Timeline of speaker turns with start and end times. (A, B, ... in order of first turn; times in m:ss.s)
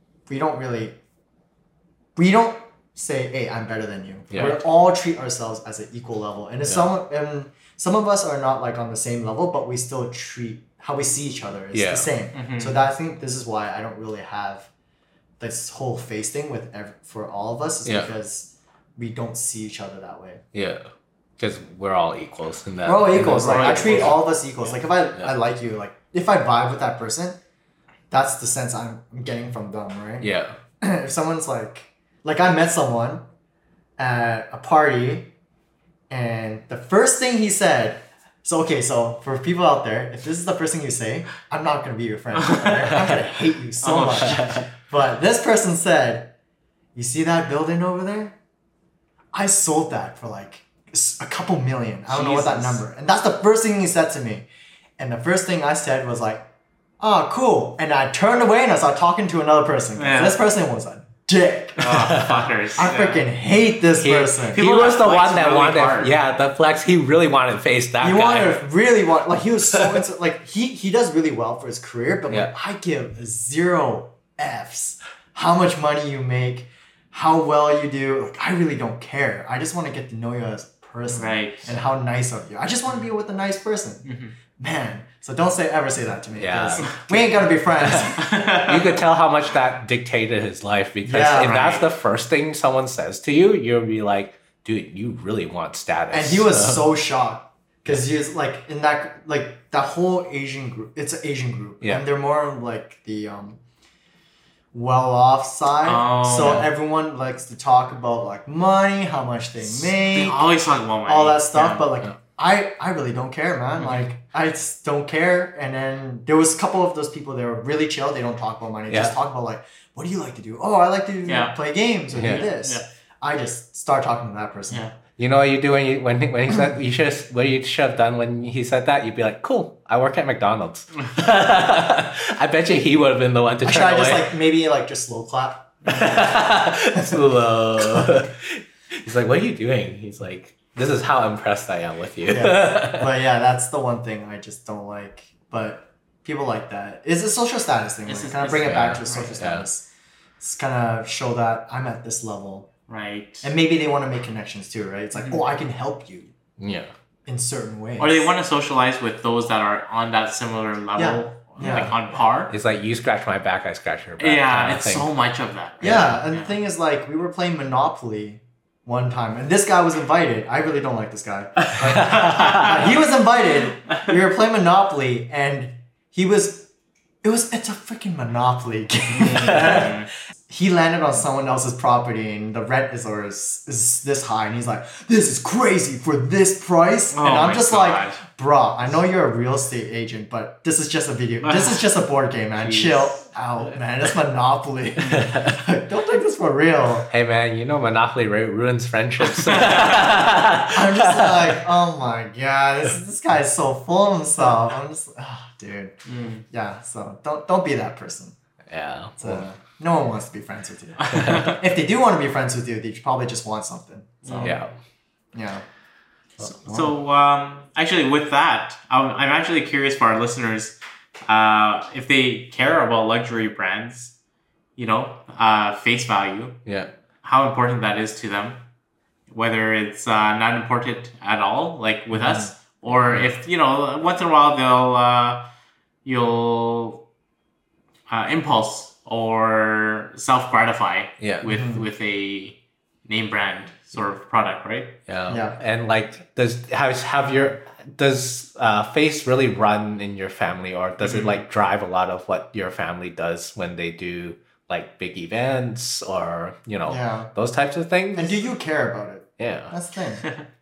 0:00.3-0:01.0 A
0:02.2-0:14.7 A
0:04.3-0:04.6 B
0:11.7-0:12.1 B
0:12.3-0:12.8 C
0:15.4-0:20.4 A
0:17.9-0:18.1 B
0:20.5-0:20.9 B
0:21.4-0:24.2 B
0:22.8-0:27.4 A
0:23.4-0:24.2 C
0:28.1-0:30.3 A
0:30.2-0:30.6 B
0:30.8-0:33.3 A
0:34.0-0:35.3 A
0:36.1-0:46.3 A
0:43.8-0:44.6 C
0:44.0-0:44.6 B
0:47.0-0:48.4 A
0:49.3-0:54.5 A
0:52.1-0:52.8 C
0:55.0-0:56.5 A
0:57.0-1:02.0 A
1:00.0-1:00.4 C
1:01.8-1:03.3 C
1:02.1-1:02.4 B
1:02.8-1:04.6 A
1:04.0-1:08.6 B
1:04.5-1:06.1 C
1:08.0-1:24.1 A
1:09.7-1:10.0 B
1:21.1-1:21.7 C
1:24.0-1:24.4 C
1:24.6-1:28.5 A
1:26.4-1:36.8 B
1:28.1-1:29.0 C
1:31.0-1:31.7 A
1:31.4-1:31.8 C
1:36.1-1:43.6 A
1:44.7-1:50.5 A
1:45.8-1:46.7 C
1:46.4-1:46.7 B
1:49.6-1:51.9 C
1:51.0-2:04.8 A
1:53.8-1:54.1 C
1:58.9-1:59.2 B
2:01.3-2:01.6 C
2:02.1-2:02.9 C
2:02.2-2:02.4 B
2:04.7-2:05.0 C
2:05.2-2:14.3 B
2:13.6-2:16.4 A
2:15.9-2:23.1 B
2:17.0-2:17.2 A
2:17.8-2:18.2 A
2:22.3-2:29.9 A
2:28.1-2:29.4 C
2:28.6-2:29.6 B
2:30.4-2:32.7 A
2:32.9-2:33.5 C
2:33.4-2:36.3 A
2:35.2-2:35.4 C
2:36.6-2:36.9 B
2:37.3-2:38.3 A
2:38.0-2:42.5 C
2:41.0-2:42.0 A
2:41.6-2:42.0 B
2:42.5-2:45.1 B
2:44.2-2:46.6 C
2:45.8-2:46.2 B
2:45.8-2:56.7 A
2:52.0-2:52.7 B
2:52.0-2:52.7 C
2:57.2-2:59.9 A
2:59.1-3:00.1 C
2:59.6-2:59.8 B
3:00.5-3:17.1 A
3:07.1-3:08.2 C
3:11.4-3:11.8 C
3:12.6-3:13.2 C
3:15.0-3:15.2 C
3:15.1-3:15.6 B
3:17.1-3:21.6 B
3:20.6-3:26.0 A
3:26.1-3:26.4 C
3:26.5-3:28.4 A
3:28.7-3:29.4 B
3:29.2-3:34.6 A
3:31.1-3:31.6 B
3:34.2-3:34.6 C
3:34.4-3:34.7 B
3:35.3-3:35.6 A
3:36.4-3:36.9 A
3:36.6-3:44.1 C
3:44.8-3:46.6 C
3:46.7-3:46.9 B
3:47.2-3:48.6 C
3:49.3-3:55.4 C
3:52.1-3:52.5 A
3:56.0-3:57.0 C
3:58.1-4:05.0 C
4:01.2-4:01.5 B
4:01.5-4:01.8 A
4:05.1-4:18.4 B
4:05.3-4:05.6 A
4:11.0-4:11.4 C
4:16.9-4:17.3 A
4:18.2-4:20.3 A
4:19.4-4:19.7 B